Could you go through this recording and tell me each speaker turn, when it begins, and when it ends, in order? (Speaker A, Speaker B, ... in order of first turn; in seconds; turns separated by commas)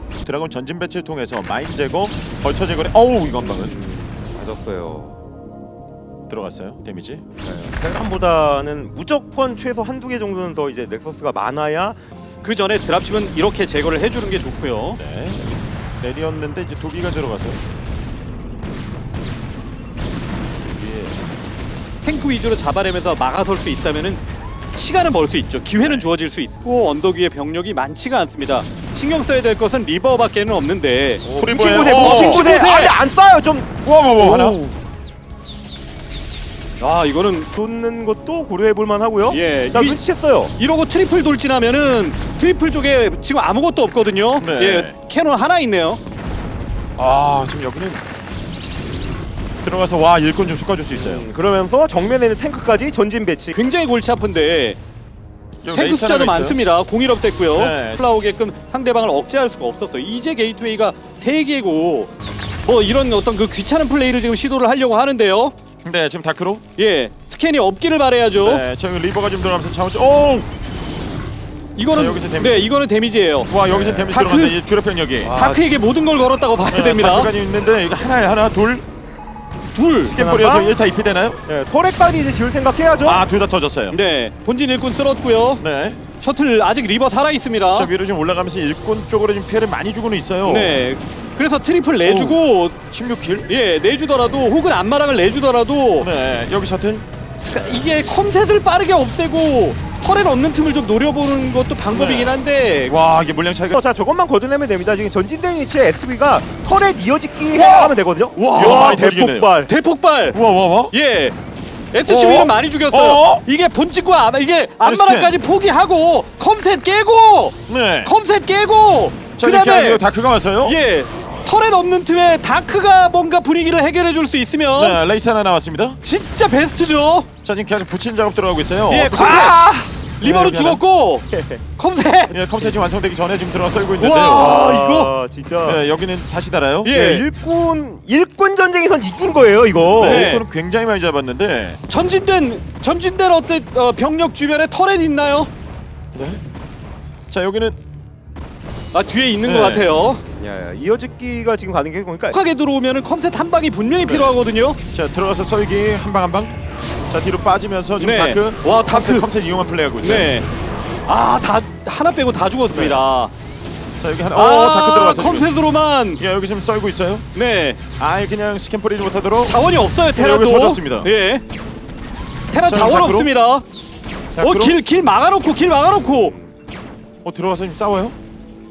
Speaker A: 0.2-3.7, Speaker B: 3.4-5.2, Speaker A: 6.3-7.2, Speaker B: 7.4-12.0, Speaker C: 12.4-15.0, Speaker A: 15.0-17.6, Speaker A: 20.6-21.2, Speaker C: 22.0-31.2, Speaker A: 25.8-26.1, Speaker B: 31.2-34.7, Speaker A: 31.3-32.5, Speaker C: 31.9-33.0, Speaker A: 33.8-34.6, Speaker C: 36.8-37.5, Speaker B: 37.5-40.5, Speaker C: 39.3-40.0, Speaker C: 40.6-46.0, Speaker A: 44.4-45.0, Speaker A: 47.0-48.0, Speaker A: 49.6-51.2, Speaker B: 50.9-53.6, Speaker C: 53.5-54.8, Speaker A: 55.6-56.6, Speaker C: 55.7-62.1, Speaker A: 57.5-58.0, Speaker C: 62.6-65.5, Speaker A: 65.8-66.6, Speaker C: 66.8-68.6, Speaker A: 68.4-70.5, Speaker C: 71.8-73.5, Speaker A: 71.9-72.7, Speaker A: 73.5-75.3, Speaker B: 73.7-74.2, Speaker C: 74.1-74.6, Speaker B: 75.2-75.7, Speaker C: 75.3-77.3, Speaker A: 76.7-78.8, Speaker C: 79.7-80.2, Speaker A: 80.0-81.4, Speaker B: 80.1-80.8, Speaker B: 81.5-83.2, Speaker A: 83.0-84.0, Speaker C: 83.9-85.6, Speaker A: 85.6-86.0, Speaker C: 86.2-87.9, Speaker A: 87.7-90.8, Speaker C: 90.4-92.8, Speaker A: 92.0-93.5, Speaker C: 93.5-96.1, Speaker A: 96.0-97.8, Speaker C: 97.4-102.9, Speaker A: 101.9-103.8, Speaker B: 103.7-109.7, Speaker A: 107.6-107.9, Speaker C: 108.4-109.0, Speaker A: 108.5-109.5, Speaker C: 109.6-110.4, Speaker A: 110.3-110.9, Speaker C: 110.9-111.3, Speaker C: 111.9-120.0, Speaker A: 112.1-113.4, Speaker A: 114.8-115.4, Speaker A: 117.7-118.1, Speaker A: 119.4-120.8, Speaker C: 120.6-125.0, Speaker A: 124.7-126.0, Speaker C: 126.0-127.3, Speaker A: 127.4-129.3, Speaker C: 128.9-129.6, Speaker B: 129.1-129.9, Speaker A: 130.2-130.8, Speaker C: 130.2-132.7, Speaker B: 131.3-131.6, Speaker A: 132.3-134.7, Speaker C: 134.0-135.1, Speaker B: 134.3-135.8, Speaker A: 135.6-136.9, Speaker C: 136.8-137.2, Speaker B: 136.9-140.3, Speaker A: 139.9-141.8, Speaker C: 140.0-140.4, Speaker C: 141.9-145.5, Speaker A: 146.1-146.4, Speaker A: 147.3-147.8, Speaker C: 148.9-150.2, Speaker A: 149.4-149.9, Speaker B: 150.4-152.4, Speaker C: 152.3-154.8, Speaker A: 154.0-154.4, Speaker A: 154.9-156.6, Speaker A: 157.1-160.3, Speaker C: 158.0-159.3, Speaker C: 160.0-160.5, Speaker C: 161.1-163.3, Speaker A: 162.7-163.0, Speaker A: 164.0-165.5, Speaker C: 164.3-166.2, Speaker A: 166.2-167.2, Speaker C: 167.3-167.8, Speaker A: 168.0-171.1, Speaker C: 169.4-171.4, Speaker C: 172.5-173.6, Speaker A: 172.6-173.3, Speaker A: 174.3-174.8, Speaker C: 174.4-176.3, Speaker B: 176.0-176.5, Speaker A: 177.2-178.2